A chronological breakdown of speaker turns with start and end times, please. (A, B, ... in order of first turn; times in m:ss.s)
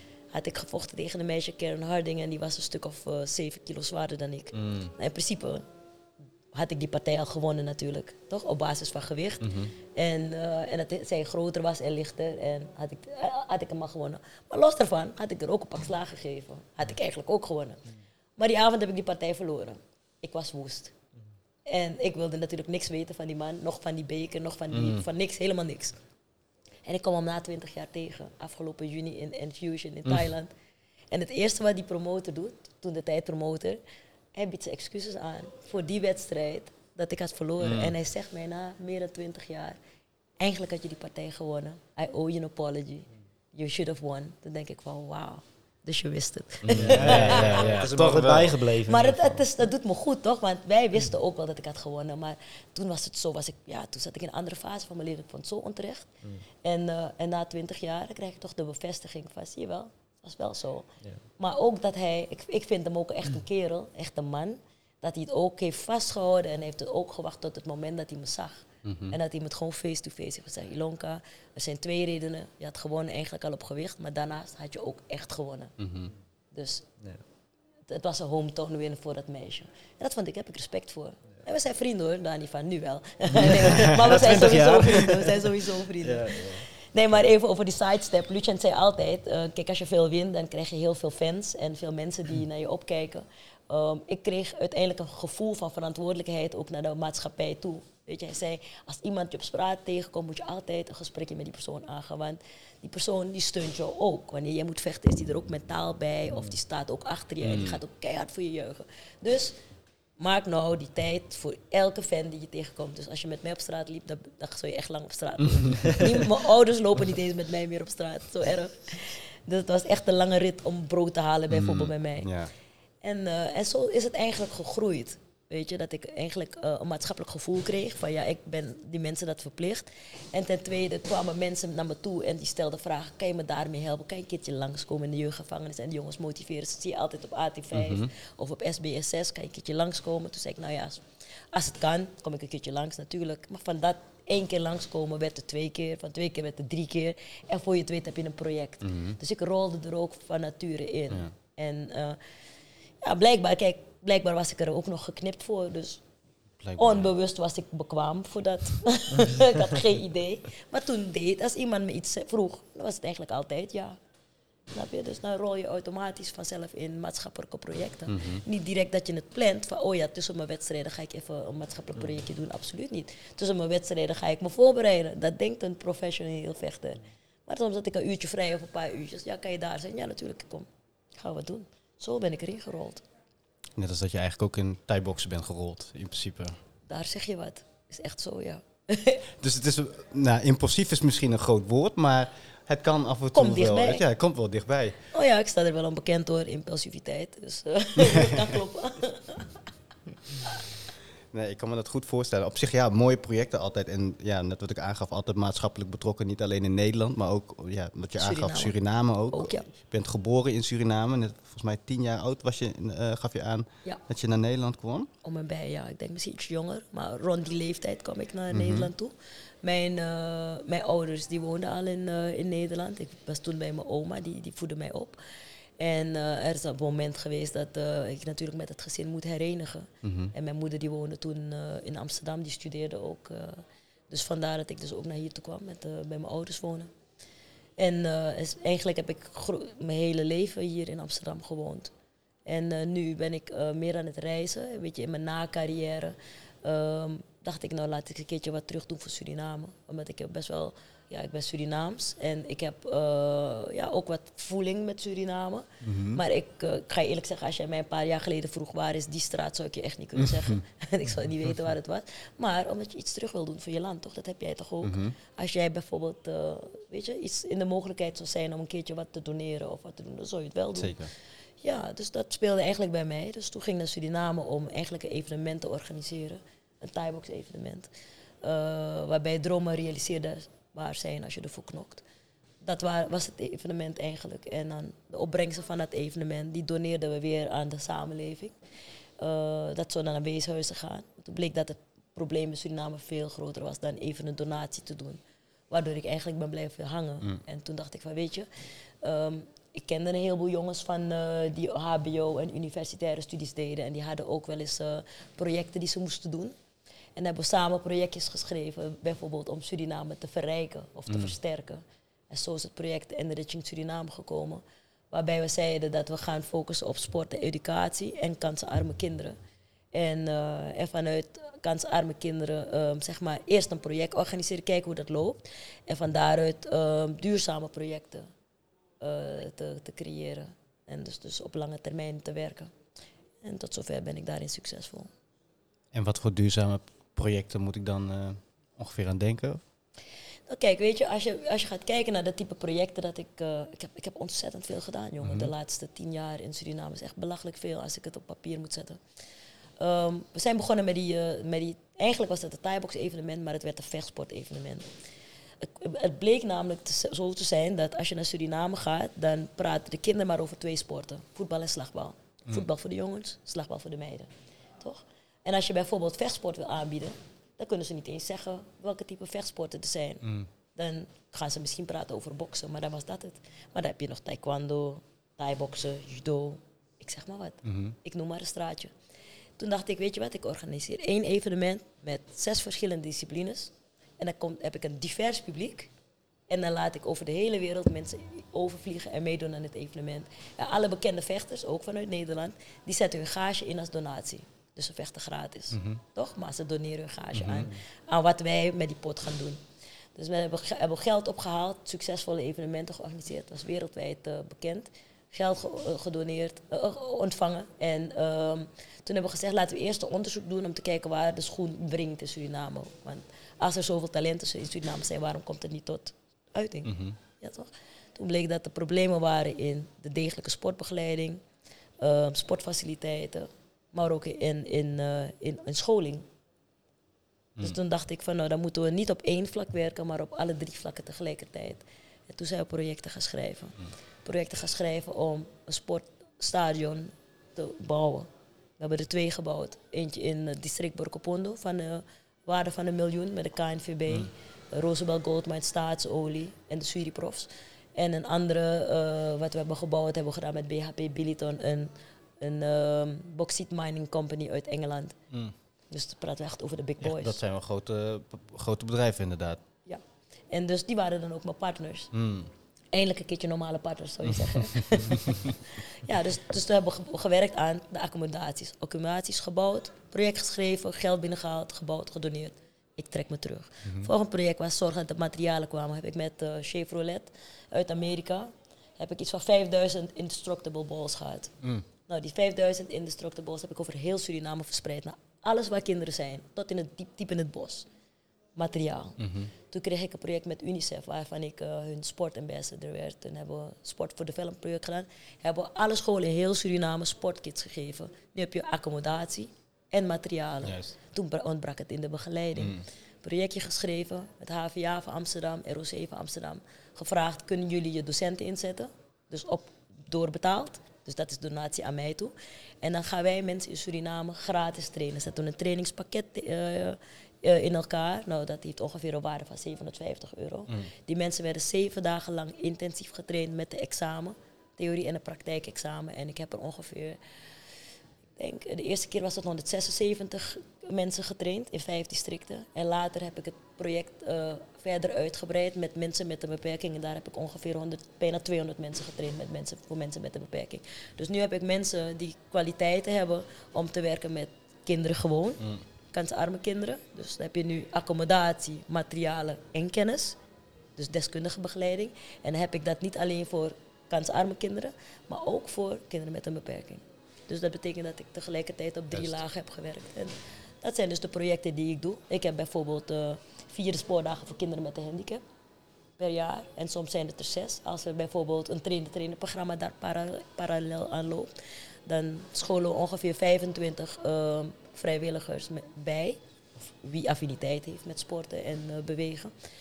0:00.3-0:05.6 A
0:04.5-0:04.9 B
0:06.5-0:17.8 A
0:09.4-0:09.7 B
0:18.4-0:20.9 A
0:21.7-0:26.0 A
0:24.7-0:25.0 B
0:26.8-0:30.5 A
0:31.1-0:33.8 A
0:34.3-0:39.8 A
0:37.6-0:37.9 B
0:40.4-0:47.8 A
0:46.6-0:48.6 B
0:46.8-0:49.5 C
0:48.8-0:56.1 A
0:56.6-1:00.9 A
1:01.4-1:15.7 A
1:08.8-1:09.2 B
1:15.8-1:16.1 B
1:16.5-1:16.8 A
1:17.9-1:49.6 A
1:23.3-1:26.7 C
1:47.4-1:47.8 B
1:50.2-2:02.3 A
2:01.5-2:02.5 B
2:03.0-2:32.2 A
2:17.7-2:18.1 B
2:28.8-2:29.2 B
2:33.0-2:36.0 A
2:36.6-2:37.1 B
2:36.8-2:44.0 A
2:44.7-3:03.0 A
2:48.1-2:48.4 B
3:03.8-3:06.6 B
3:06.9-3:09.2 A
3:09.4-3:15.0 B
3:13.3-3:14.0 A
3:15.1-3:19.5 A
3:18.0-3:18.6 B
3:21.3-3:35.1 B
3:28.2-3:28.8 A
3:29.3-3:29.7 A
3:35.2-3:45.2 A
3:38.5-3:38.9 B
3:45.8-3:56.9 A
3:50.0-3:50.3 B
3:57.8-4:01.9 A
4:02.4-4:31.0 A
4:15.8-4:16.2 B
4:20.2-4:20.6 B
4:24.8-4:25.1 B
4:30.8-4:31.1 B
4:31.6-4:37.9 A
4:38.4-4:42.0 A
4:42.6-4:48.6 A
4:49.2-4:58.5 A
4:59.0-5:06.6 A
5:07.2-5:19.4 A
5:11.1-5:11.3 B
5:19.9-5:28.3 A
5:29.0-5:32.7 A
5:33.4-5:35.1 A
5:35.9-5:39.6 B
5:40.5-5:49.0 A
5:45.2-5:45.5 B
5:49.8-5:54.9 A
5:55.6-6:18.9 A
6:10.2-6:10.5 B
6:17.6-6:18.0 B
6:19.6-6:25.9 A
6:26.5-6:39.6 A
6:35.7-6:36.0 B
6:37.3-6:37.7 B
6:40.1-7:01.4 A
6:56.8-6:57.2 B
7:02.0-7:06.2 A
7:07.6-7:35.2 A
7:35.9-7:37.4 A
7:37.0-7:39.6 B
7:39.8-7:42.1 A
7:42.1-7:42.5 B
7:42.9-8:01.5 A
7:44.4-7:45.5 B
8:02.1-8:07.9 A
8:08.6-8:47.2 A
8:09.2-8:09.5 B
8:20.6-8:20.9 B
8:22.6-8:22.8 B
8:48.4-9:10.4 A
9:11.0-9:25.4 A
9:19.1-9:19.4 B
9:26.2-9:31.5 A
9:32.0-9:39.5 A